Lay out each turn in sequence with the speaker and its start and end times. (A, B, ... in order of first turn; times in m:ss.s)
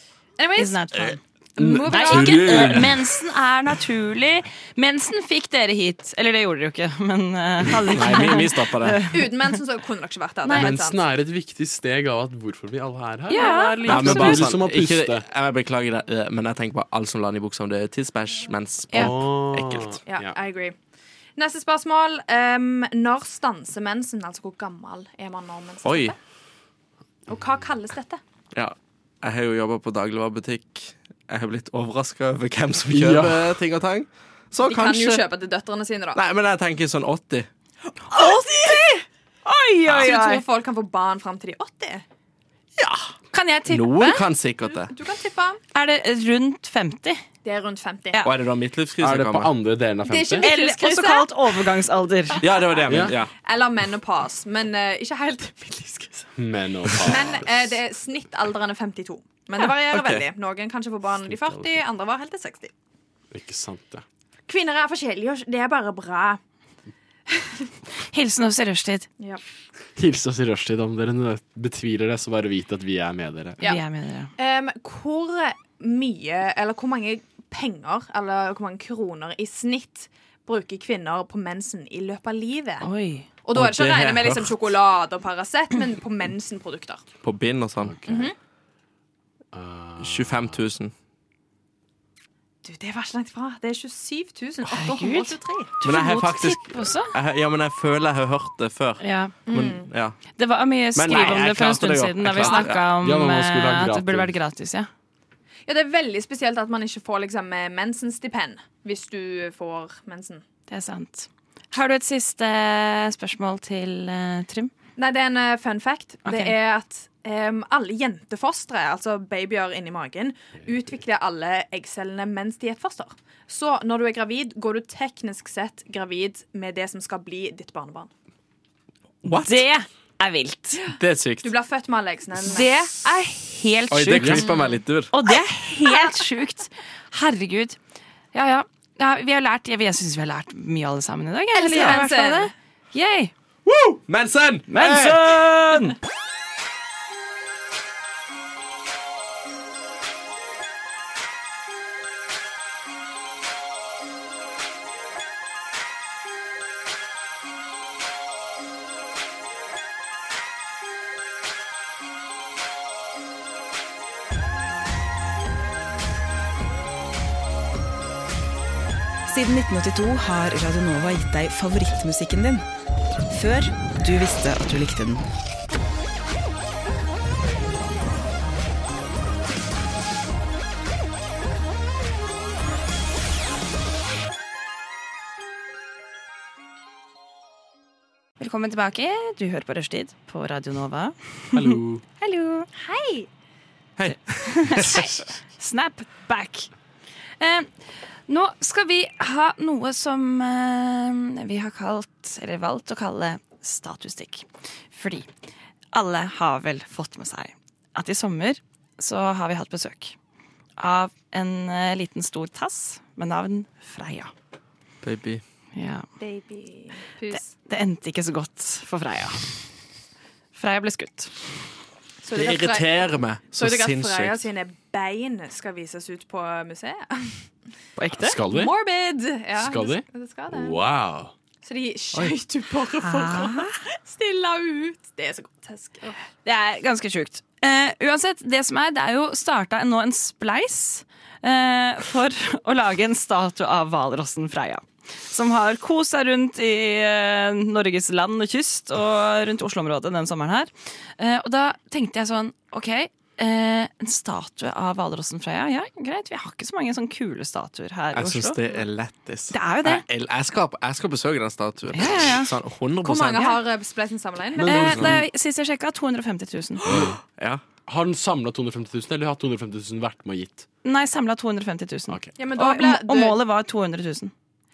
0:00.4-0:02.8 A
0:00.6-0:01.2 B
0:01.6-0:02.9 C
0:01.8-0:09.2 B
0:02.0-0:02.9 D
0:07.8-0:09.0 D
0:09.1-0:11.0 A
0:10.4-0:10.7 B
0:10.5-0:15.2 C
0:13.3-0:14.5 B
0:13.8-0:20.0 D
0:18.9-0:20.3 C
0:20.1-0:20.7 A
0:21.4-0:26.2 A
0:25.8-0:26.1 D
0:27.3-0:28.2 A
0:28.5-0:35.2 D
0:32.9-0:33.6 C
0:34.6-0:36.2 A
0:36.1-0:37.5 D
0:38.1-0:39.0 A
0:38.1-0:38.9 B
0:39.4-0:40.4 B
0:39.9-0:42.0 A
0:42.8-0:43.1 D
0:43.3-0:44.2 B
0:43.7-0:44.9 D
0:44.8-0:45.6 A
0:45.7-0:47.2 B
0:47.4-0:48.3 A
0:48.2-0:49.5 D
0:49.0-0:50.5 C
0:50.0-0:51.3 A
0:50.4-0:52.4 B
0:52.4-0:53.3 D
0:52.8-0:53.1 C
0:53.4-0:56.3 A
0:56.4-0:57.5 C
0:57.0-1:02.7 A
0:59.9-1:00.2 D
1:01.3-1:01.6 C
1:03.3-1:04.0 C
1:04.5-1:06.4 A
1:07.3-1:07.7 A
1:08.1-1:09.1 B
1:10.0-1:13.6 C
1:13.6-1:14.3 B
1:14.4-1:22.8 A
1:22.8-1:23.2 B
1:23.4-1:27.0 A
1:23.5-1:24.6 D
1:27.2-1:28.0 D
1:27.8-1:28.3 C
1:28.1-1:28.3 A
1:29.5-1:30.6 C
1:30.0-1:30.9 D
1:32.6-1:35.7 A
1:34.7-1:37.1 B
1:35.8-1:40.2 D
1:39.0-1:39.3 B
1:39.5-1:39.9 A
1:40.4-1:44.9 B
1:40.9-1:42.8 D
1:42.4-1:44.3 C
1:45.7-1:50.4 A
1:50.7-1:54.7 B
1:55.0-2:08.1 A
1:56.2-1:56.5 B
2:09.2-2:09.6 D
2:09.3-2:10.8 B
2:10.9-2:11.5 D
2:11.4-2:12.8 A
2:12.4-2:14.5 B
2:13.9-2:15.1 D
2:14.2-2:14.4 C
2:15.1-2:17.8 B
2:18.3-2:23.3 B
2:21.5-2:22.5 A
2:23.6-2:25.5 D
2:24.7-2:26.0 B
2:49.2-2:52.6 E
2:53.3-2:55.3 E
3:08.4-3:12.7 B
3:11.5-3:12.0 C
3:12.7-3:13.3 A
3:14.0-3:15.1 D
3:14.4-3:16.7 B
3:17.4-3:17.7 B
3:18.3-3:25.3 B
3:25.9-3:30.1 B
3:30.8-3:34.3 B
3:35.0-3:35.4 D
3:35.7-3:36.0 B
3:36.2-3:37.5 A
3:37.3-3:39.5 B
3:40.5-3:41.3 B
3:42.2-3:47.4 A
3:42.3-3:44.5 D
3:48.0-3:48.4 B
3:48.1-3:48.7 C
3:48.5-3:50.8 A
3:49.6-3:51.3 C
3:51.6-3:56.2 A
3:53.0-3:53.7 B
3:56.4-4:18.6 B
4:18.1-4:23.5 D
4:19.5-4:20.0 B
4:21.9-4:22.5 B
4:23.0-4:25.1 A
4:24.6-4:25.2 C
4:24.6-4:26.9 B
4:24.7-4:25.2 D
4:26.9-4:27.2 C
4:26.9-4:27.6 D
4:27.8-4:30.6 C
4:30.8-4:34.3 B
4:32.1-4:32.3 C
4:32.4-4:33.4 A